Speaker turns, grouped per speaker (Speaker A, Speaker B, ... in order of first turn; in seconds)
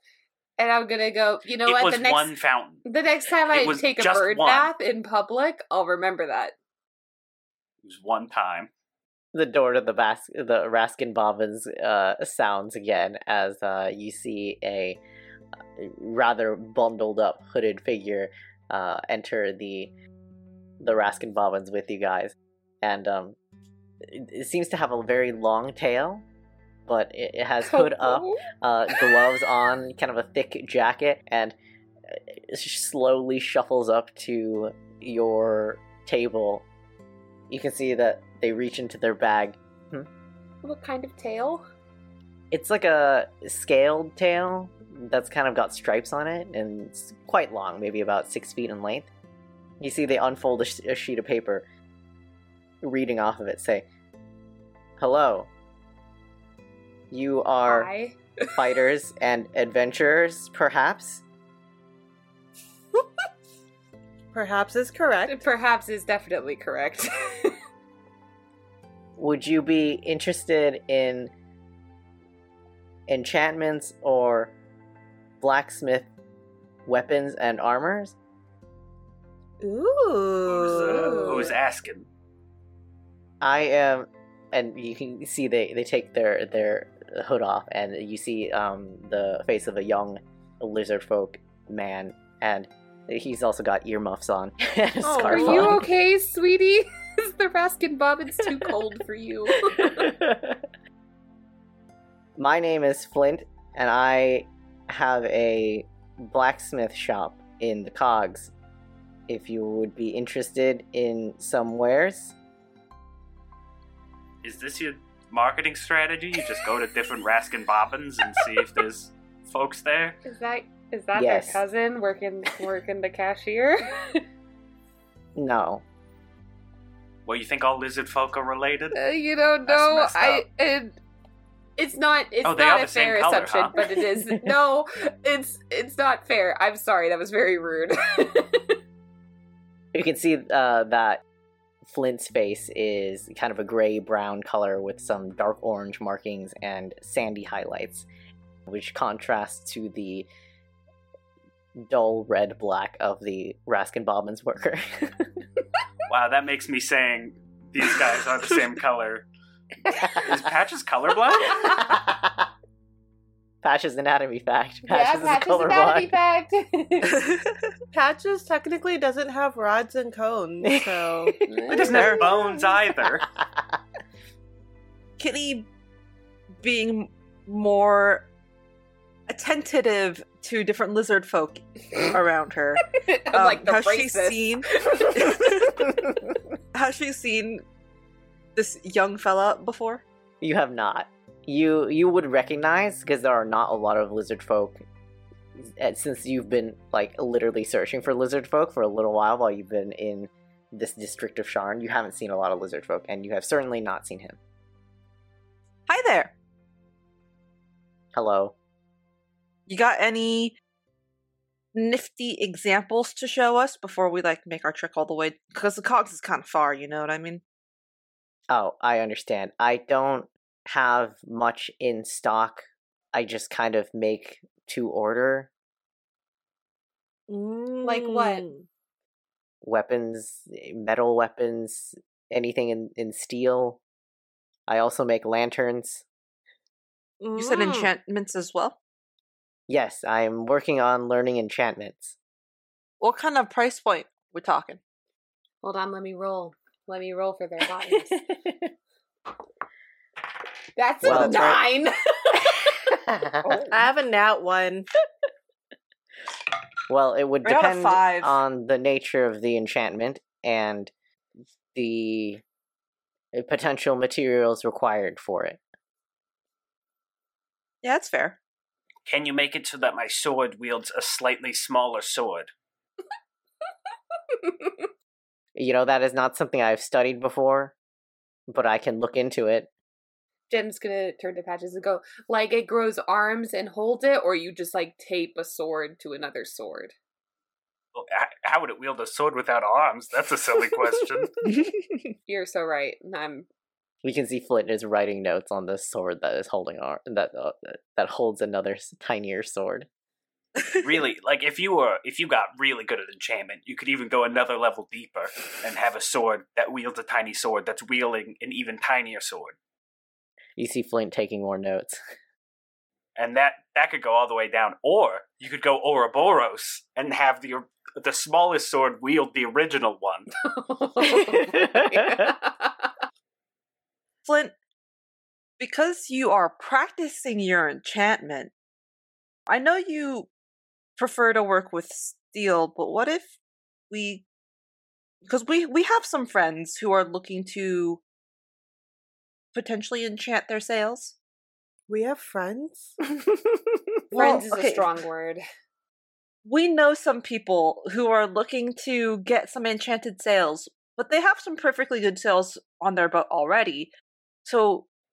Speaker A: 0.6-2.3, 2.8-6.5, 27.6-28.4, 40.6-41.6, 57.6-58.2, 65.3-67.6, 95.2-100.1, 120.2-124.2, 128.9-131.0, 131.8-138.8, 164.9-167.2, 171.4-172.1, 182.9-185.5, 227.8-228.4, 245.6-248.2, 250.8-252.9, 274.3-274.8, 280.5-286.9, 292.3-293.5, 320.4-322.9, 344.1-345.4
Speaker B: 1.6-2.8, 3.5-4.7, 7.8-8.7, 80.5-82.1, 114.4-120.2, 127.2-128.9, 129.7-130.4, 132.4-133.8, 156.1-159.3, 160.1-161.8, 171.7-173.3, 269.1-272.5, 287.9-291.4, 300.8-309.6, 313.1-320.3
Speaker C: 9.3-15.0, 15.8-19.9, 20.8-23.4, 24.0-26.2, 26.9-31.5, 32.1-36.6, 37.5-40.1, 42.5-49.1, 49.8-51.6, 52.8-53.9, 55.0-55.5, 57.1-57.9, 58.5-61.2, 69.2-71.3, 73.1-74.5, 75.4-76.1, 76.8-78.1, 83.4-95.8, 99.8-100.6, 102.4-108.5, 109.3-112.3, 121.1-121.6, 125.3-125.8, 139.9-141.2, 141.8-148.1, 148.7-150.3, 151.8-155.3, 161.5-162.5, 163.6-166.1, 170.6-171.4, 173.4-173.7, 190.4-194.8, 195.6-204.4, 208.1-208.5, 218.5-225.5, 229.6-233.8, 234.7-236.0, 239.7-242.2, 248.1-248.7, 251.0-251.6, 253.1-253.6, 256.9-260.9, 261.7-262.4, 263.3-265.6, 275.6-277.8, 278.5-279.7, 294.0-299.9, 310.6-312.0, 321.0-322.3
Speaker D: 64.3-65.4, 79.6-81.5, 95.0-95.8, 167.9-171.4, 227.3-228.6, 237.2-237.9, 253.7-254.9, 341.9-342.9
Speaker E: 167.1-167.7, 175.2-175.7, 176.6-178.3, 179.3-186.0, 186.7-187.6, 188.5-190.0, 205.9-206.3, 209.7-210.6, 211.7-217.4, 237.3-238.8, 243.0-244.8, 253.4-253.8, 257.4-258.4, 267.8-268.4, 291.4-292.1, 300.6-300.8, 324.2-324.5, 325.6-328.5, 329.5-330.3, 331.0-333.3, 333.9-334.2, 335.2-338.0, 339.5-341.1, 344.1-344.9, 346.4-353.9, 354.4-354.9